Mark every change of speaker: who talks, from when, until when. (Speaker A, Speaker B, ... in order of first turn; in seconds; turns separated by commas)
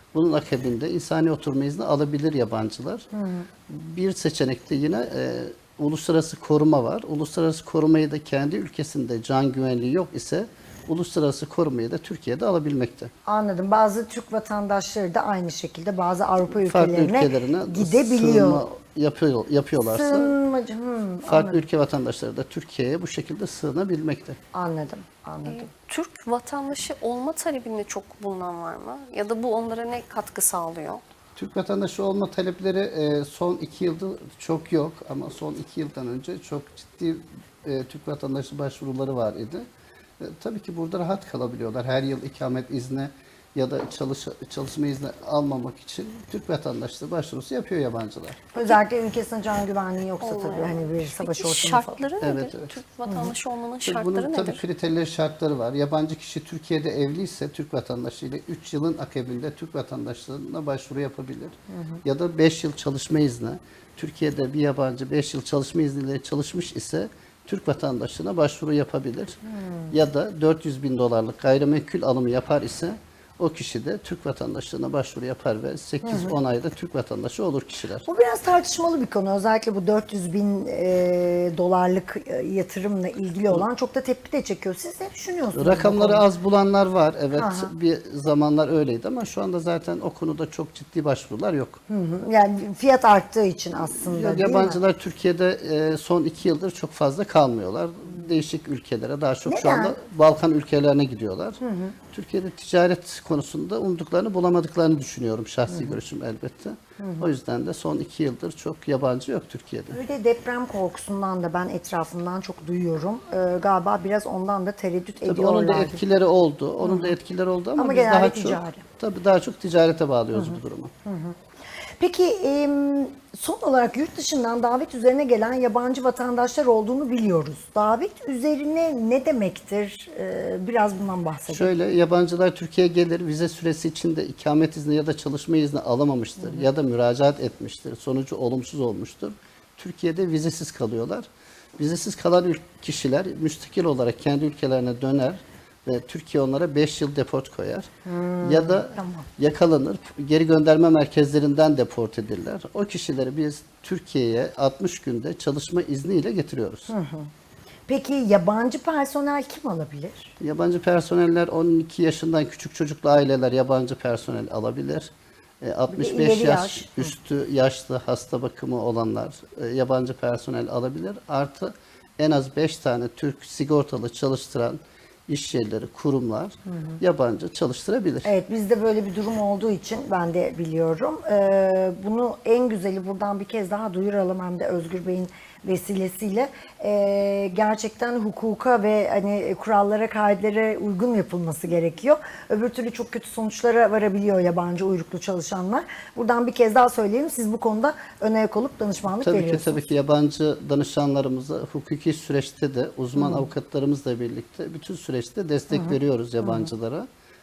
Speaker A: 0.1-3.1, Speaker B: 3.1-3.5, Speaker A: 3.7-13.1, Speaker B: 13.2-18.6, Speaker A: 16.5-20.4, Speaker B: 19.8-21.6, Speaker A: 21.2-24.4, Speaker B: 24.5-25.7, Speaker C: 25.4-31.0, Speaker A: 31.4-39.6, Speaker A: 40.2-48.4, Speaker B: 48.5-52.1, Speaker C: 50.2-54.6, Speaker A: 52.2-52.7, Speaker B: 53.1-53.3, Speaker A: 53.8-78.0, Speaker B: 61.7-62.0, Speaker B: 69.5-70.0, Speaker B: 76.0-76.4, Speaker B: 78.0-86.2, Speaker A: 85.5-91.8, Speaker B: 87.3-87.7, Speaker B: 91.9-94.8, Speaker A: 93.9-101.6, Speaker B: 99.5-100.0, Speaker B: 101.6-102.0, Speaker A: 102.1-110.0, Speaker B: 105.7-106.0, Speaker B: 107.0-107.3, Speaker B: 109.9-116.0, Speaker A: 115.3-120.9, Speaker B: 116.8-117.2, Speaker B: 117.8-118.8, Speaker B: 120.3-121.4, Speaker B: 122.0-131.7, Speaker A: 131.5-147.9, Speaker B: 148.0-149.3, Speaker A: 148.4-156.9, Speaker B: 156.9-157.3, Speaker B: 157.9-160.3, Speaker A: 160.4-178.3, Speaker B: 165.9-167.1, Speaker B: 176.7-177.0, Speaker B: 178.2-199.9, Speaker A: 199.1-207.1, Speaker B: 203.2-203.5, Speaker B: 205.7-206.7